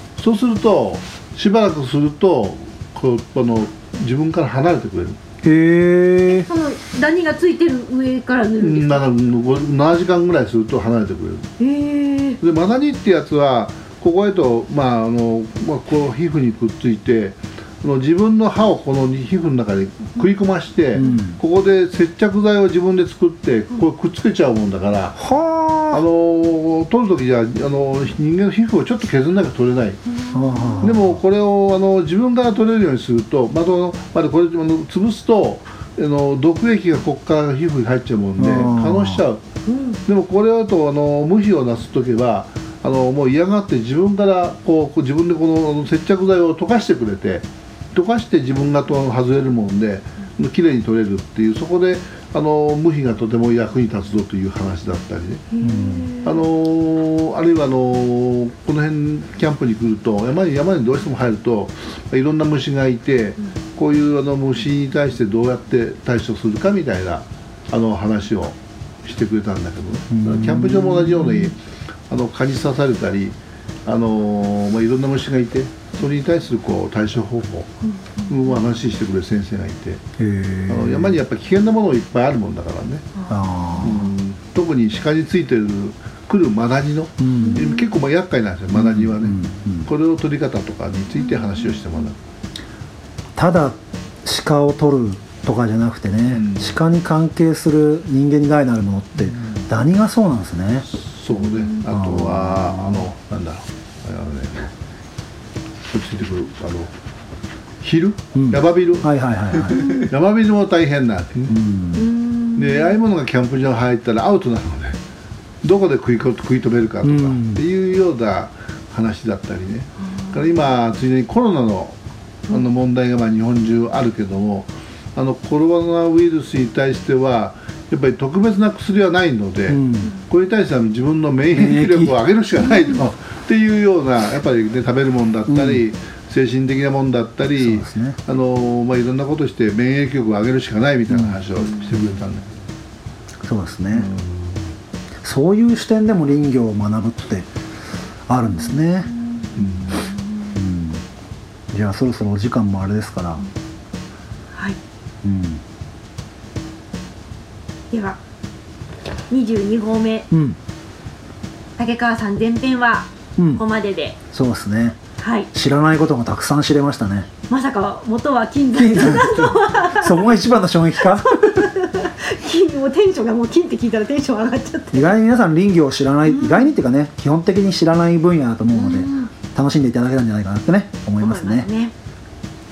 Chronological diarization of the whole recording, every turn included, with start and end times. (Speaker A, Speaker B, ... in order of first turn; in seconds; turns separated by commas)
Speaker A: 0.2-5.2, Speaker B: 5.4-6.5, Speaker C: 6.5-9.0, Speaker A: 8.6-11.5, Speaker C: 11.6-12.4, Speaker A: 12.4-25.2, Speaker B: 20.9-21.4, Speaker B: 25.2-26.0, Speaker A: 25.9-30.0, Speaker C: 30.2-30.9, Speaker B: 30.3-31.1, Speaker A: 30.8-39.4, Speaker B: 38.4-39.2, Speaker C: 39.6-40.0, Speaker A: 40.0-55.5, Speaker C: 55.5-56.4, Speaker B: 55.6-56.1, Speaker A: 56.2-71.6, Speaker B: 70.1-71.5, Speaker A: 72.1-77.7, Speaker C: 77.8-78.6, Speaker A: 78.3-80.0, Speaker B: 80.2-81.2, Speaker A: 80.7-83.1, Speaker C: 83.2-83.7, Speaker B: 83.3-84.1, Speaker A: 83.8-92.2, Speaker B: 87.2-87.6, Speaker C: 87.4-87.9, Speaker B: 88.7-89.9, Speaker B: 93.3-100.8, Speaker A: 96.3-96.7, Speaker A: 100.8-104.7, Speaker B: 101.9-103.1, Speaker A: 105.9-106.9, Speaker A: 107.8-111.5, Speaker B: 108.3-109.8, Speaker B: 111.5-112.0, Speaker C: 112.0-113.0, Speaker A: 112.5-115.0, Speaker A: 115.6-122.0, Speaker B: 117.0-117.6, Speaker A: 122.5-142.5, Speaker B: 129.7-130.1, Speaker B: 131.5-132.2, Speaker B: 135.5-135.8, Speaker B: 137.6-138.2, Speaker B: 141.1-141.3, Speaker B: 143.4-144.1, Speaker A: 143.9-144.5, Speaker B: 145.2-147.5, Speaker B: 148.3-149.1, Speaker C: 149.3-150.4, Speaker A: 149.6-149.9, Speaker B: 150.5-151.0, Speaker B: 151.7-153.4, Speaker C: 154.5-154.8, Speaker B: 155.2-155.6, Speaker C: 157.9-158.2, Speaker C: 159.3-160.3, Speaker B: 160.3-160.6, Speaker C: 161.8-164.2, Speaker B: 163.4-163.6, Speaker B: 164.3-165.0, Speaker C: 165.2-165.5, Speaker B: 165.5-167.3, Speaker C: 167.5-170.2, Speaker B: 168.8-171.7, Speaker C: 171.2-175.1, Speaker B: 174.9-181.7, Speaker C: 176.3-176.7, Speaker C: 178.7-179.3, Speaker C: 181.2-181.9